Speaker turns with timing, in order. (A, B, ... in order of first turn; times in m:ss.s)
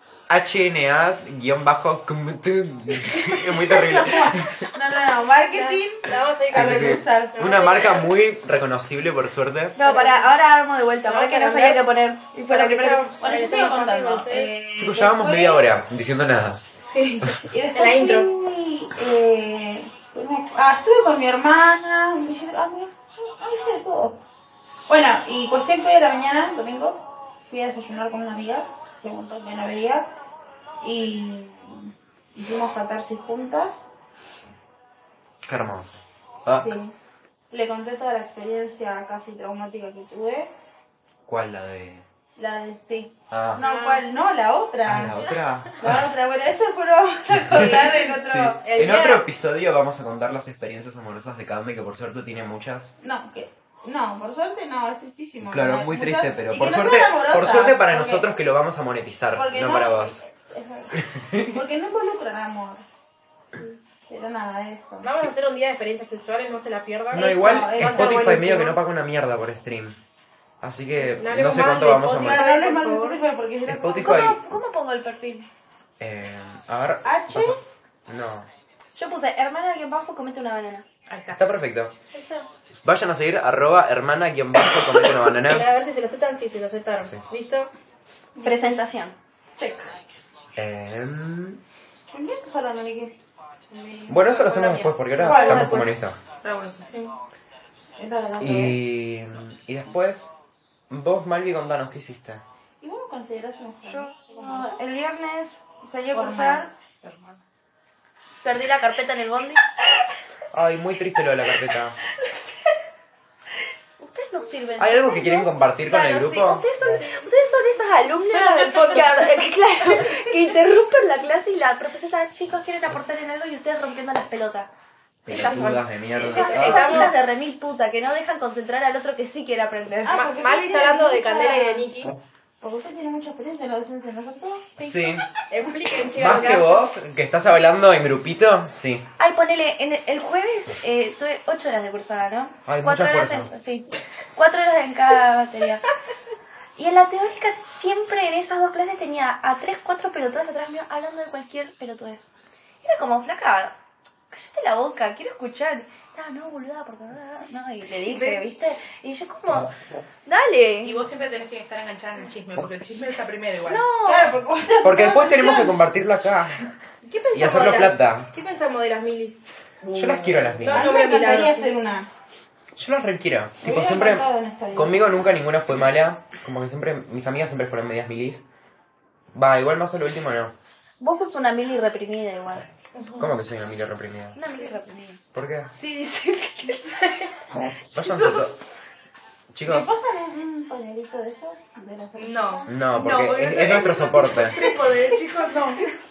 0:00.3-0:04.7 A
0:03.0-0:07.6 B
0:05.5-0:08.2 C
0:06.5-0:09.8 A
0:09.8-0:13.1 D
0:09.8-0:10.3 C
0:11.0-0:11.8 C
0:12.4-0:14.5 C
0:12.9-0:15.8 B
0:14.8-0:16.6 A
0:16.8-0:18.3 C
0:17.3-0:24.2 B
0:24.9-0:30.1 B
0:30.8-0:33.8 B
0:35.4-0:36.7 A
0:36.4-0:36.9 B
0:37.5-0:40.5 B
0:41.2-0:42.0 A
0:42.4-0:49.0 B
0:43.3-0:43.6 A
0:43.6-0:44.0 C
0:44.8-0:46.1 A
0:47.3-0:52.9 A
0:48.6-0:49.2 C
0:53.0-0:58.3 B
0:55.4-1:00.2 A
0:59.3-1:02.9 B
1:00.9-1:01.6 A
1:04.1-1:05.1 B
1:05.0-1:07.3 C
1:07.1-1:08.8 B
1:07.1-1:10.0 A
1:10.6-1:12.4 A
1:11.0-1:13.2 C
1:12.1-1:14.4 B
1:13.7-1:14.4 A
1:14.0-1:15.5 D
1:16.0-1:18.5 A
1:17.0-1:17.6 B
1:18.9-1:20.8 D
1:21.1-1:21.4 E
1:21.3-1:21.9 A
1:22.1-1:22.5 C
1:22.8-1:25.7 A
1:25.2-1:27.7 C
1:28.4-1:28.8 B
1:28.4-1:29.1 D
1:29.6-1:29.9 B
1:30.6-1:31.6 A
1:32.1-1:33.1 B
1:34.1-1:36.2 A
1:34.3-1:35.9 C
1:35.2-1:35.9 B
1:36.4-1:36.9 E
1:38.0-1:38.8 B
1:38.4-1:40.3 A
1:40.9-1:42.4 A
1:42.8-1:44.8 B
1:43.9-1:46.7 D
1:46.1-1:47.4 E
1:46.2-1:46.6 B
1:48.4-1:49.6 D
1:50.5-1:52.0 A
1:54.0-2:04.7 D
1:54.8-1:56.6 A
1:56.9-1:57.2 C
1:58.2-1:59.5 C
2:05.2-2:07.1 A
2:05.3-2:10.1 D
2:06.2-2:07.0 B
2:06.3-2:07.2 C
2:10.0-2:11.9 B
2:10.1-2:12.1 C
2:12.6-2:14.9 B
2:14.8-2:15.3 A
2:14.8-2:15.1 D
2:15.5-2:16.9 C
2:16.1-2:19.1 A
2:19.2-2:25.8 D
2:22.6-2:23.5 A
2:26.8-2:32.3 D
2:32.8-2:33.8 D
2:34.3-2:39.7 D
2:38.0-2:38.4 E
2:40.2-2:41.0 D
2:40.8-2:43.9 E
2:43.6-2:44.4 D
2:44.0-2:45.8 B
2:44.8-2:46.6 A
2:47.0-2:49.4 C
2:47.3-2:48.3 A
2:49.8-2:50.7 E
2:49.9-2:51.0 A
2:50.6-2:51.7 C
2:50.7-2:52.1 B
2:52.8-2:58.4 A
2:53.6-2:55.1 B
2:59.3-3:00.5 A
3:01.0-3:02.7 D
3:03.0-3:03.3 C
3:03.2-3:04.4 A
3:04.3-3:05.2 D
3:05.3-3:05.7 A
3:05.7-3:07.3 D
3:07.9-3:08.6 A
3:07.9-3:08.5 D
3:09.5-3:09.9 A
3:09.6-3:12.7 B
3:12.2-3:15.9 E
3:12.7-3:14.6 A